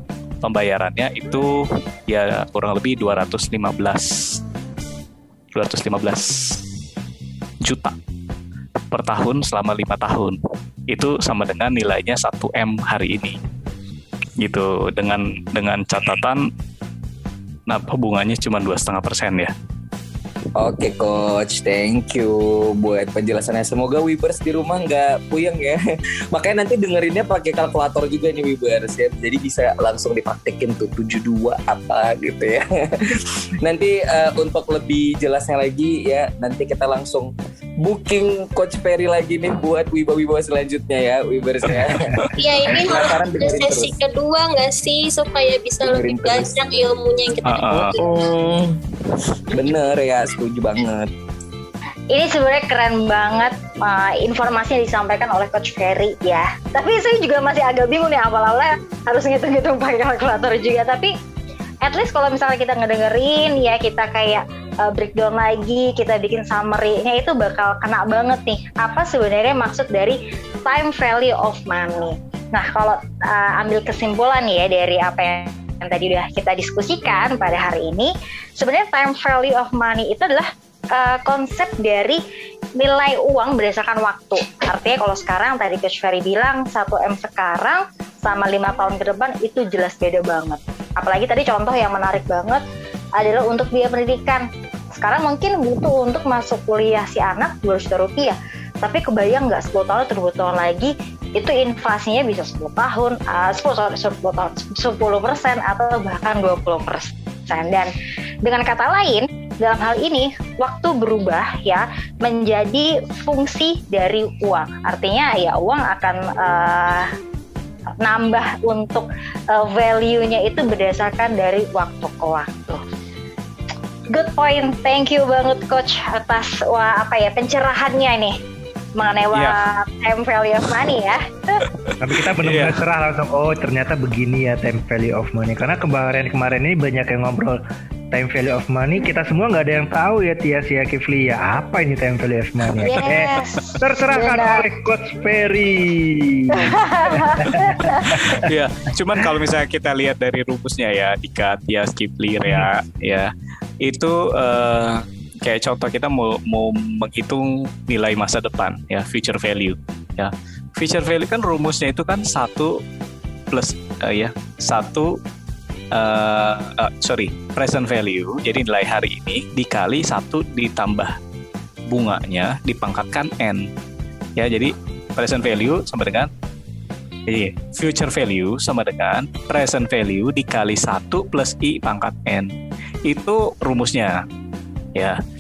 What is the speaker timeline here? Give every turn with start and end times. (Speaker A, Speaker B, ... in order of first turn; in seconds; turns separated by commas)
Speaker A: 0.4-1.5, Speaker A: 2.1-4.4, Speaker A: 5.5-6.6, Speaker A: 7.6-8.0, Speaker A: 8.9-10.4, Speaker A: 10.9-13.4, Speaker A: 14.4-16.4, Speaker A: 17.7-19.5, Speaker B: 20.6-25.8, Speaker B: 26.3-32.6, Speaker B: 33.6-42.1, Speaker A: 41.7-42.0, Speaker C: 42.4-48.1, Speaker B: 42.6-43.9, Speaker B: 45.8-46.6, Speaker A: 47.5-48.0, Speaker B: 47.9-48.8, Speaker B: 49.5-51.1, Speaker D: 52.1-61.1, Speaker D: 61.8-82.2, Speaker D: 82.8-92.6, Speaker D: 93.2-94.5, Speaker D: 95.0-107.9, Speaker D: 108.4-117.1, Speaker D: 118.0-122.8, Speaker D: 124.1-128.3, Speaker D: 129.0-131.2, Speaker A: 131.7-132.8, Speaker E: 132.0-137.6, Speaker E: 138.1-148.5, Speaker D: 142.8-144.7, Speaker D: 146.6-148.2, Speaker A: 148.0-153.3, Speaker A: 153.8-162.7, Speaker A: 163.5-165.1, Speaker A: 165.9-171.1, Speaker A: 171.9-173.6, Speaker A: 174.4-176.3, Speaker A: 177.3-182.5, Speaker A: 183.1-184.2